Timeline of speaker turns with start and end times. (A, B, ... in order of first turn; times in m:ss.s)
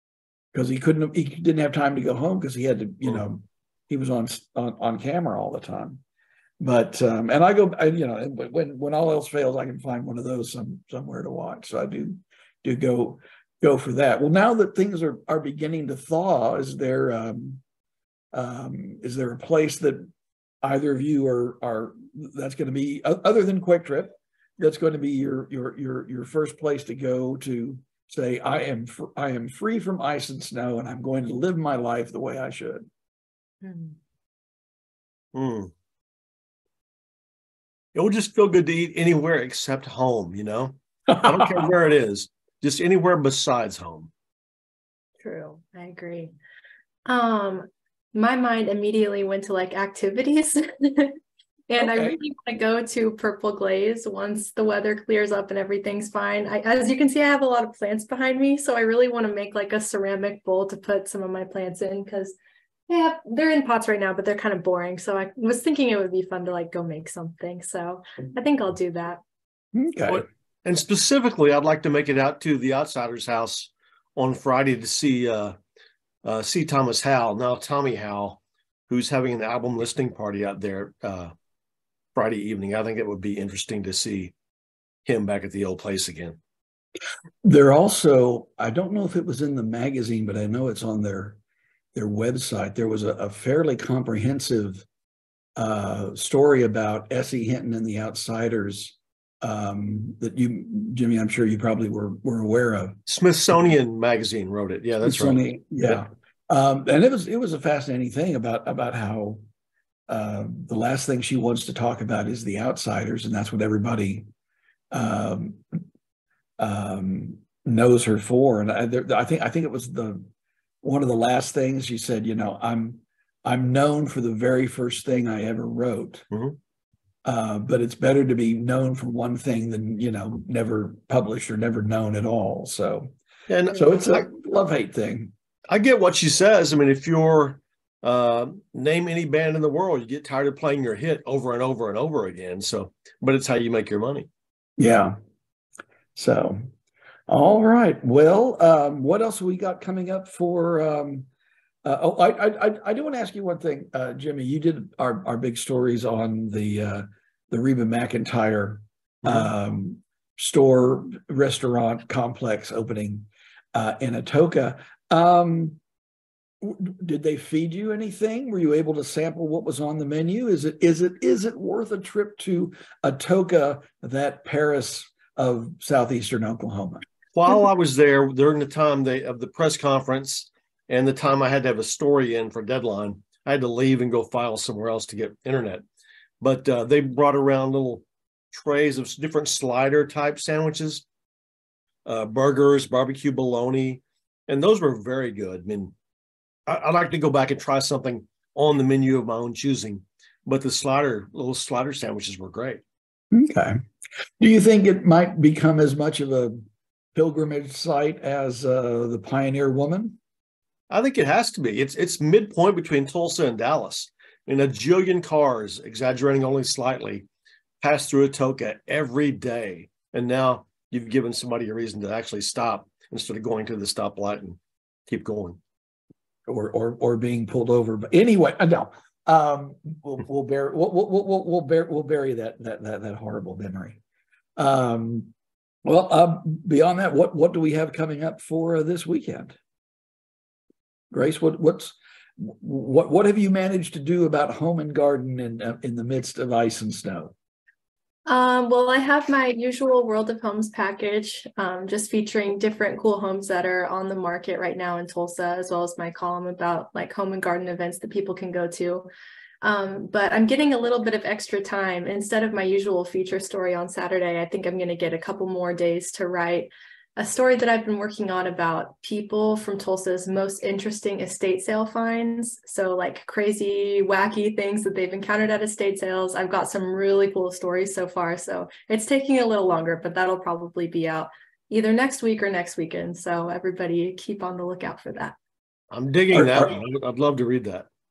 0:00.5-0:06.0 A
0:06.6-0:17.6 A
0:18.3-0:20.1 A
0:20.6-0:32.8 A
0:33.6-0:34.0 B
0:35.3-0:35.7 C
0:37.9-0:44.1 C
0:41.1-0:41.6 A
0:45.2-0:46.3 B
0:47.1-1:02.3 B
0:51.8-0:52.2 A
1:02.9-1:09.2 B
1:09.7-1:10.2 A
1:10.1-1:15.5 C
1:16.2-1:21.3 C
1:22.1-1:24.3 C
1:25.0-1:26.4 C
1:27.4-1:31.4 A
1:31.9-1:34.8 A
1:35.6-1:43.0 A
1:43.1-1:46.0 C
1:45.0-1:49.4 A
1:50.1-1:54.2 A
1:54.9-1:55.6 A
1:56.6-2:00.2 A
2:00.8-2:06.3 A
2:06.3-2:06.6 C
2:07.2-2:13.1 A
2:13.5-2:14.3 C
2:13.7-2:15.3 A
2:15.7-2:24.3 C
2:24.8-2:25.1 A
2:26.2-2:26.7 A
2:27.3-2:31.3 A
2:31.8-2:45.8 A
2:39.2-2:39.5 C
2:46.6-2:57.0 A
2:57.3-3:05.8 C
3:06.4-3:11.0 C
3:12.0-3:15.9 C
3:16.6-3:22.8 C
3:23.3-3:23.8 A
3:24.4-3:26.6 A
3:27.1-3:30.2 A
3:30.9-3:37.2 C
3:37.8-3:45.6 C
3:46.5-3:54.0 A
3:54.6-3:55.3 A
3:55.8-3:59.6 A
4:01.1-4:07.3 A
4:08.3-4:19.1 B
4:19.6-4:45.3 B
4:45.9-4:47.8 C
4:46.3-4:46.7 A